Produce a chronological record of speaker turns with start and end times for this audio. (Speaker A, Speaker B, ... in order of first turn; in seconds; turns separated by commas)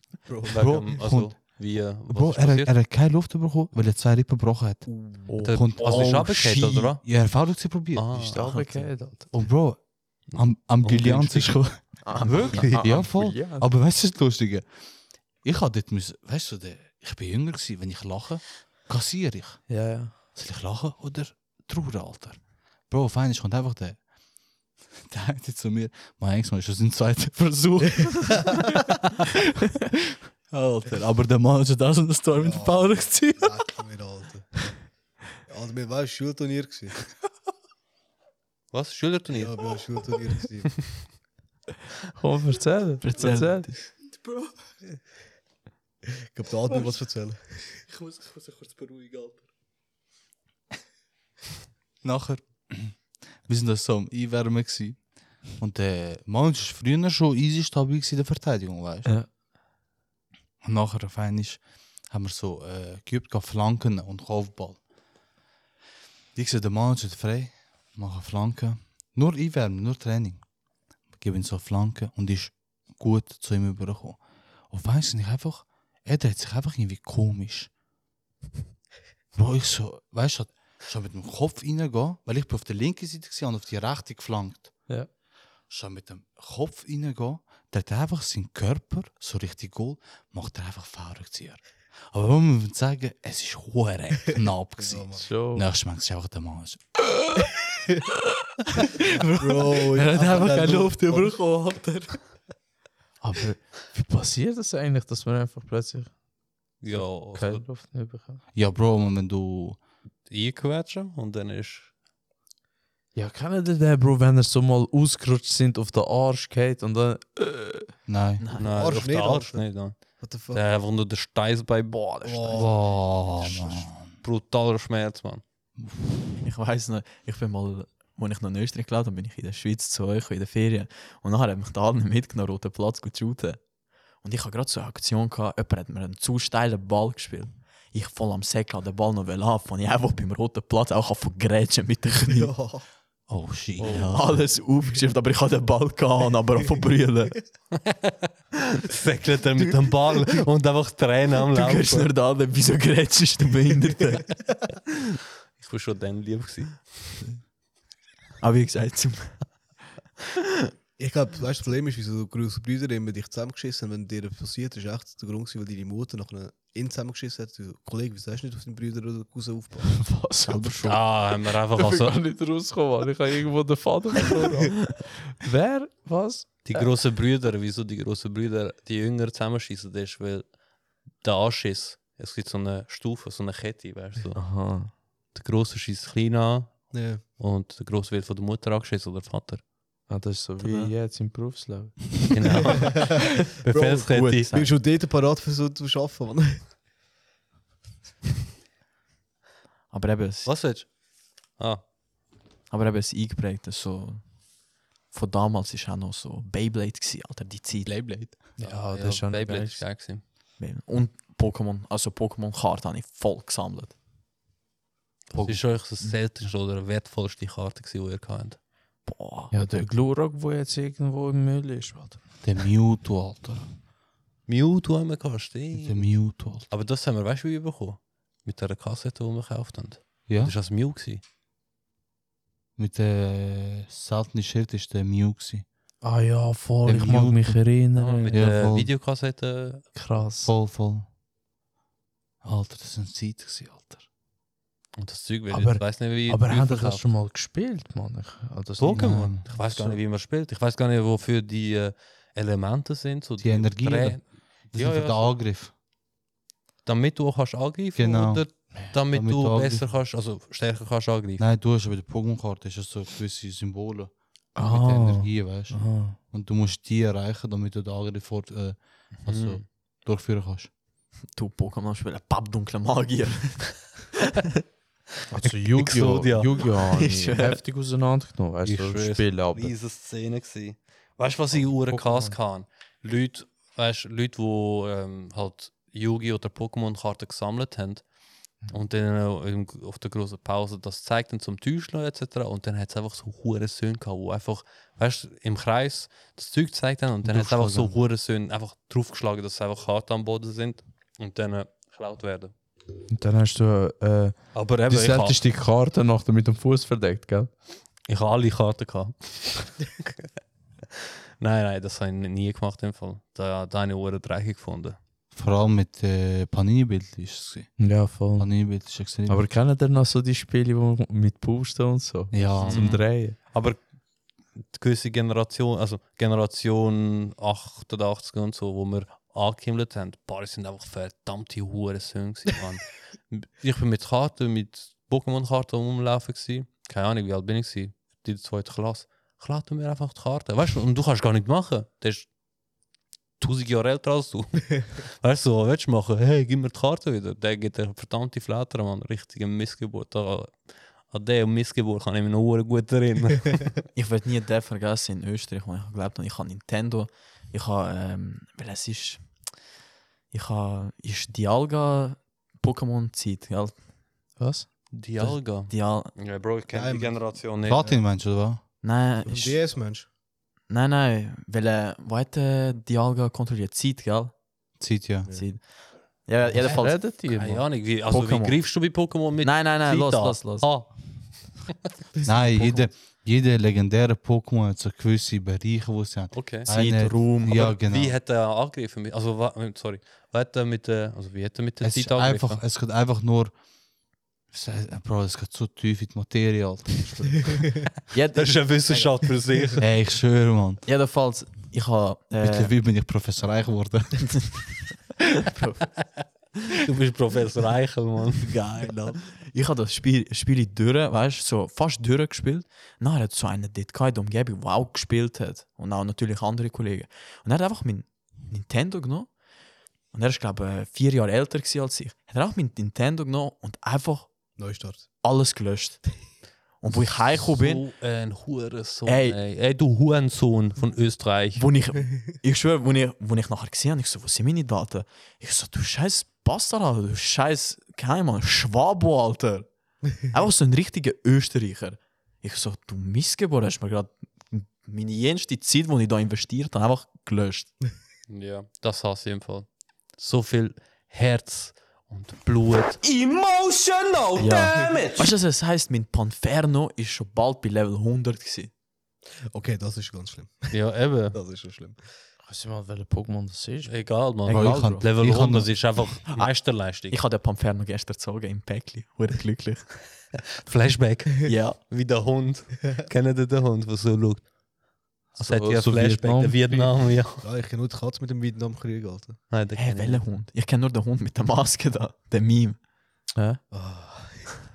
Speaker A: 0.2-0.5, Speaker B: 0.5-1.6, Speaker C: 0.5-2.8, Speaker B: 2.1-8.4, Speaker D: 4.8-6.8, Speaker E: 5.3-5.5, Speaker C: 5.4-7.1, Speaker C: 7.9-8.7, Speaker E: 8.3-9.3, Speaker D: 8.5-8.9, Speaker B: 9.3-14.7, Speaker C: 10.3-13.1, Speaker D: 12.0-13.0, Speaker E: 12.6-13.7, Speaker B: 15.4-24.0, Speaker E: 19.7-20.2, Speaker B: 24.9-29.9, Speaker B: 30.5-33.6, Speaker A: 32.4-34.8, Speaker A: 35.4-37.0, Speaker C: 38.7-39.7, Speaker A: 39.3-40.9, Speaker E: 42.2-43.7, Speaker D: 43.0-43.8, Speaker B: 44.1-44.5, Speaker A: 46.3-47.8, Speaker B: 47.9-49.4, Speaker B: 52.0-59.2, Speaker B: 60.6-64.8, Speaker B: 66.3-70.5, Speaker B: 71.2-77.7, Speaker B: 79.3-84.8, Speaker B: 85.7-97.0, Speaker A: 94.8-95.3, Speaker E: 95.2-95.7, Speaker B: 99.2-101.3, Speaker A: 99.4-101.4, Speaker D: 100.2-102.1, Speaker E: 103.2-106.2, Speaker E: 106.8-108.4, Speaker C: 106.8-107.7, Speaker B: 108.5-109.8, Speaker C: 110.3-111.9, Speaker E: 113.1-118.0, Speaker B: 118.1-118.4, Speaker D: 118.4-118.7, Speaker C: 118.6-122.6, Speaker A: 118.6-120.6, Speaker D: 121.9-122.6, Speaker A: 122.2-122.8, Speaker B: 122.5-124.2, Speaker C: 123.4-125.4, Speaker D: 126.4-142.5, Speaker A: 142.3-142.8, Speaker B: 143.3-144.5, Speaker C: 143.8-144.1, Speaker D: 143.8-147.4, Speaker C: 147.9-148.1, Speaker C: 148.8-152.1, Speaker D: 151.5-154.3, Speaker C: 155.6-157.0, Speaker D: 158.4-159.6, Speaker A: 161.0-170.1, Speaker E: 170.0-171.2, Speaker D: 170.4-170.9, Speaker C: 170.8-172.2, Speaker E: 171.7-176.9, Speaker C: 176.6-180.6, Speaker C: 181.2-189.7, Speaker E: 184.3-184.9, Speaker A: 186.9-187.2, Speaker E: 190.1-192.6, Speaker D: 190.6-190.9, Speaker C: 192.3-194.5, Speaker A: 192.7-196.7, Speaker D: 194.0-194.8, Speaker D: 199.9-200.5, Speaker C: 200.4-201.0, Speaker C: 201.6-201.8, Speaker D: 202.7-204.4, Speaker D: 205.1-207.9, Speaker B: 207.8-208.4, Speaker E: 208.6-209.9, Speaker C: 208.6-210.2, Speaker D: 210.6-213.9, Speaker C: 215.3-218.6, Speaker B: 215.3-215.7, Speaker D: 219.0-219.9, Speaker E: 219.5-222.4, Speaker B: 222.4-223.7, Speaker C: 224.5-231.2, Speaker B: 225.7-226.7, Speaker B: 230.3-230.5, Speaker B: 232.8-235.7, Speaker E: 236.0-238.6, Speaker B: 236.8-237.7, Speaker C: 237.9-239.9, Speaker B: 238.3-238.9, Speaker E: 239.9-240.6, Speaker B: 240.4-241.1, Speaker B: 242.4-244.0, Speaker C: 245.0-247.1, Speaker E: 245.5-250.0, Speaker C: 248.8-255.4, Speaker B: 248.9-249.4, Speaker B: 253.4-255.7, Speaker C: 256.8-261.4, Speaker B: 257.9-259.9, Speaker B: 261.4-270.7, Speaker E: 264.6-266.2, Speaker C: 269.2-269.6, Speaker D: 271.3-273.7, Speaker E: 275.3-279.7, Speaker C: 275.4-276.7, Speaker D: 276.9-277.6, Speaker C: 278.6-288.0, Speaker E: 281.9-282.3, Speaker C: 288.7-302.5, Speaker B: 297.2-298.0, Speaker E: 303.1-307.5, Speaker C: 304.5-305.4, Speaker C: 308.1-310.1, Speaker C: 311.4-315.0, Speaker B: 315.3-319.5, Speaker E: 317.8-323.4, Speaker B: 322.3-323.0, Speaker C: 322.6-323.9, Speaker C: 324.7-342.3, Speaker C: 343.4-353.8, Speaker D: 353.9-359.5, Speaker D: 360.3-363.8, Speaker E: 364.4-364.7, Speaker C: 364.9-367.9, Speaker D: 365.2-366.1, Speaker A: 366.7-368.0, Speaker B: 367.6-368.6, Speaker D: 368.8-369.6, Speaker A: 369.2-370.1, Speaker D: 370.7-374.5, Speaker B: 374.8-375.3, Speaker D: 375.3-377.1, Speaker E: 376.6-377.7, Speaker C: 377.2-381.7, Speaker D: 378.1-380.7, Speaker B: 382.2-388.2, Speaker D: 382.2-382.9, Speaker C: 386.3-386.7, Speaker D: 386.6-387.8, Speaker C: 387.4-392.6, Speaker B: 391.8-393.5, Speaker B: 394.5-397.6, Speaker D: 398.1-399.1, Speaker C: 398.3-399.9, Speaker B: 399.8-400.8, Speaker D: 400.9-402.7, Speaker B: 402.4-404.6, Speaker D: 405.4-405.9, Speaker C: 406.7-408.9, Speaker D: 409.2-419.4, Speaker D: 420.1-424.6, Speaker A: 424.6-425.1, Speaker D: 425.2-427.9, Speaker C: 427.3-431.7, Speaker D: 429.1-429.4, Speaker D: 431.5-447.7, Speaker C: 448.3-453.0, Speaker F: 453.0-455.3, Speaker D: 454.4-458.7, Speaker A: 459.5-462.0, Speaker C: 460.7-461.4, Speaker E: 462.4-464.1, Speaker C: 463.8-467.2, Speaker D: 464.4-465.1, Speaker B: 464.5-466.1, Speaker D: 466.3-470.0, Speaker C: 470.6-474.5, Speaker D: 471.4-471.8, Speaker C: 475.3-477.4, Speaker E: 475.4-477.1, Speaker A: 477.4-479.4, Speaker C: 479.5-480.2, Speaker D: 479.7-482.8, Speaker E: 483.3-483.6, Speaker A: 483.7-484.5